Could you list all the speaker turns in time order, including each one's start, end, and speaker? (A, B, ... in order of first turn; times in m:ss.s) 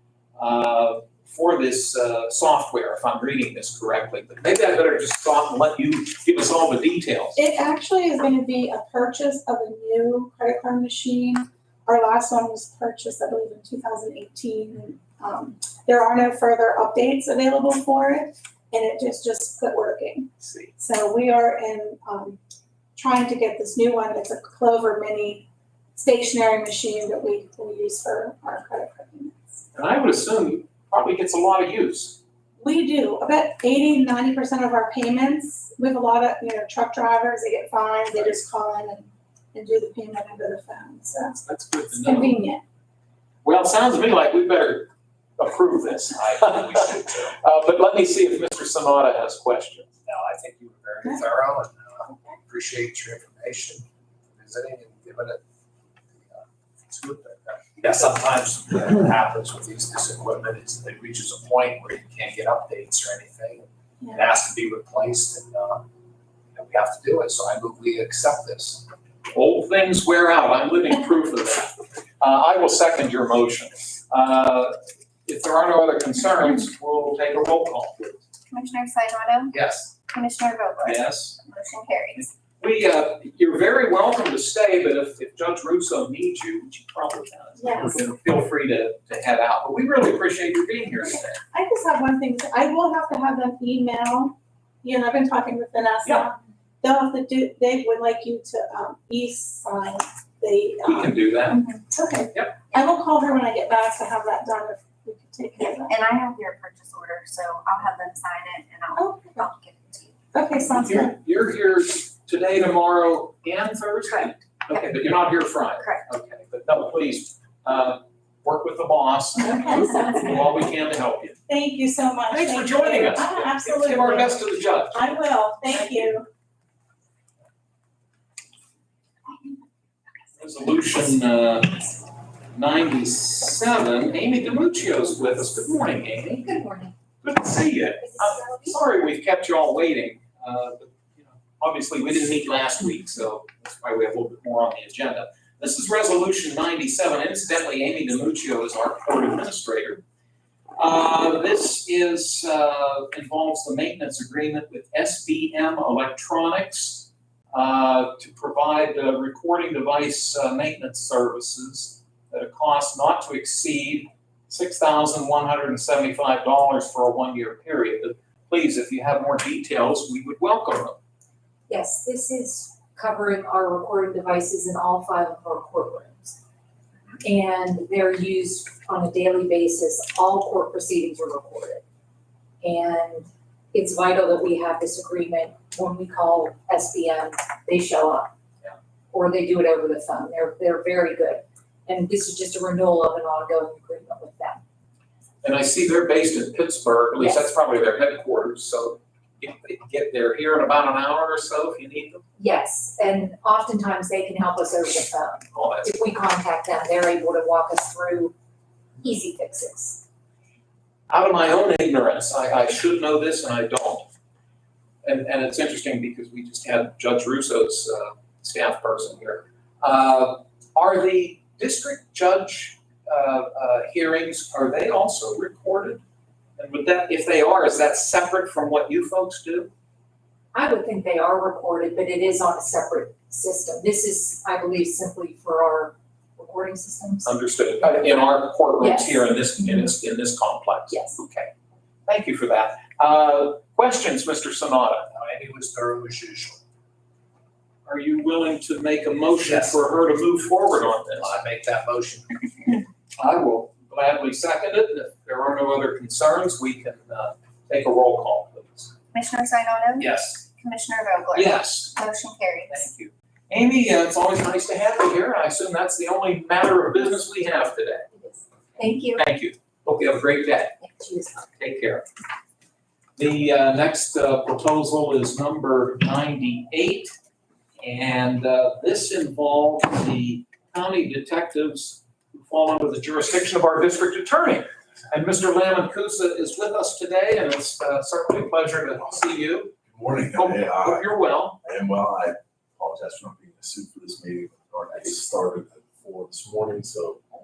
0:00.4-0:07.4 A
0:07.4-0:22.4 B
0:20.4-0:20.7 A
0:23.0-0:29.5 B
0:29.7-0:32.2 A
0:32.6-0:42.6 B
0:41.4-0:42.4 A
0:43.4-0:49.9 A
0:46.3-0:47.0 C
0:50.0-0:55.4 C
0:52.1-0:52.3 B
0:56.1-1:05.8 C
1:06.5-1:08.9 C
1:09.3-1:18.2 A
1:18.5-1:19.5 D
1:19.5-1:19.9 C
1:20.1-1:22.3 D
1:20.8-1:21.4 A
1:22.6-1:31.4 A
1:27.6-1:28.0 B
1:31.5-1:45.9 B
1:40.8-1:41.6 A
1:45.6-1:50.1 D
1:48.9-1:49.4 B
1:50.3-1:51.1 B
1:50.8-2:01.4 A
1:59.4-2:00.2 B
2:01.5-2:06.2 B
2:02.3-2:05.0 A
2:10.4-2:11.9 A
2:12.5-2:16.5 A
2:16.4-2:16.9 E
2:17.2-2:30.0 A
2:30.8-2:51.0 A
2:51.7-2:56.4 E
2:57.2-3:01.8 E
3:02.6-3:08.3 E
3:09.1-3:14.6 E
3:15.4-3:22.2 A
3:17.2-3:17.5 E
3:22.4-3:28.3 E
3:25.5-3:25.9 A
3:29.0-3:30.0 E
3:31.1-3:34.1 A
3:35.0-3:46.0 A
3:46.6-3:49.7 A
3:50.5-3:57.4 E
3:57.2-4:01.5 A
3:58.8-3:59.8 E
4:00.9-4:01.2 E
4:02.0-4:05.1 A
4:05.1-4:06.6 C
4:07.8-4:11.4 A
4:09.4-4:09.8 C
4:11.1-4:12.8 C
4:13.2-4:18.9 A
4:19.1-4:22.9 D
4:20.0-4:20.4 C
4:21.3-4:22.0 A
4:22.7-4:28.1 A
4:28.8-4:29.2 D
4:29.2-4:30.8 A
4:30.9-4:31.4 E
4:31.6-4:32.0 A
4:33.2-4:37.1 A
4:37.8-4:49.8 A
4:49.8-4:57.3 F
4:50.3-4:51.6 A